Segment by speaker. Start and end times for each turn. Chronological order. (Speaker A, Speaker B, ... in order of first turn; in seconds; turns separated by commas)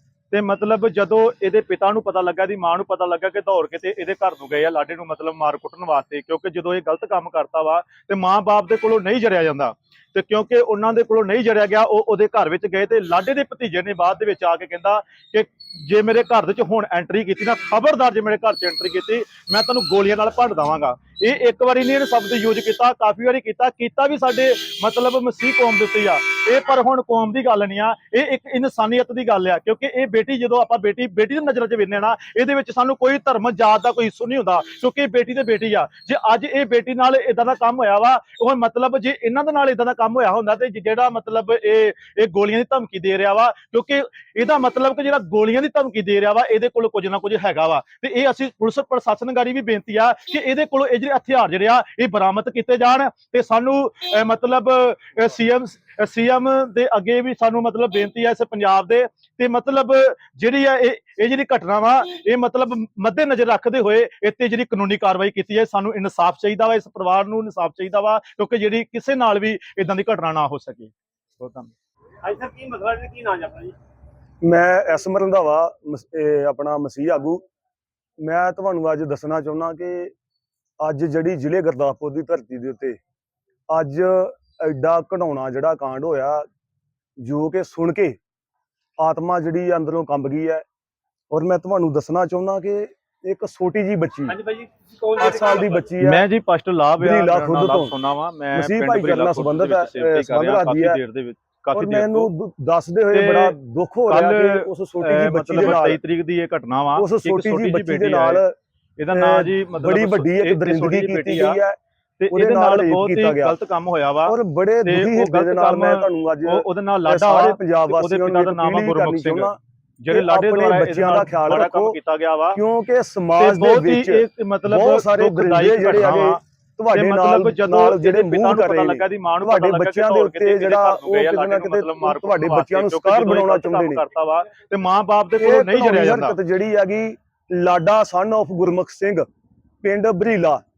Speaker A: 0.3-71.7, Speaker B: 72.2-73.8, Speaker C: 74.4-77.4, Speaker C: 78.2-80.1, Speaker C: 80.8-83.0, Speaker C: 83.7-86.5, Speaker C: 87.2-88.2, Speaker C: 89.0-90.6, Speaker C: 91.3-94.4, Speaker B: 94.3-96.0, Speaker C: 95.2-96.2, Speaker A: 96.0-102.3, Speaker C: 97.0-97.9, Speaker C: 98.5-101.0, Speaker C: 101.7-106.0, Speaker A: 103.1-103.5, Speaker A: 104.1-108.4, Speaker C: 106.9-108.5, Speaker A: 109.0-111.6, Speaker C: 109.1-111.8, Speaker A: 112.2-122.6, Speaker C: 112.3-113.5, Speaker C: 114.2-119.6, Speaker C: 120.1-122.0, Speaker C: 122.5-134.1, Speaker A: 123.4-136.4, Speaker C: 135.4-139.3, Speaker C: 139.8-140.6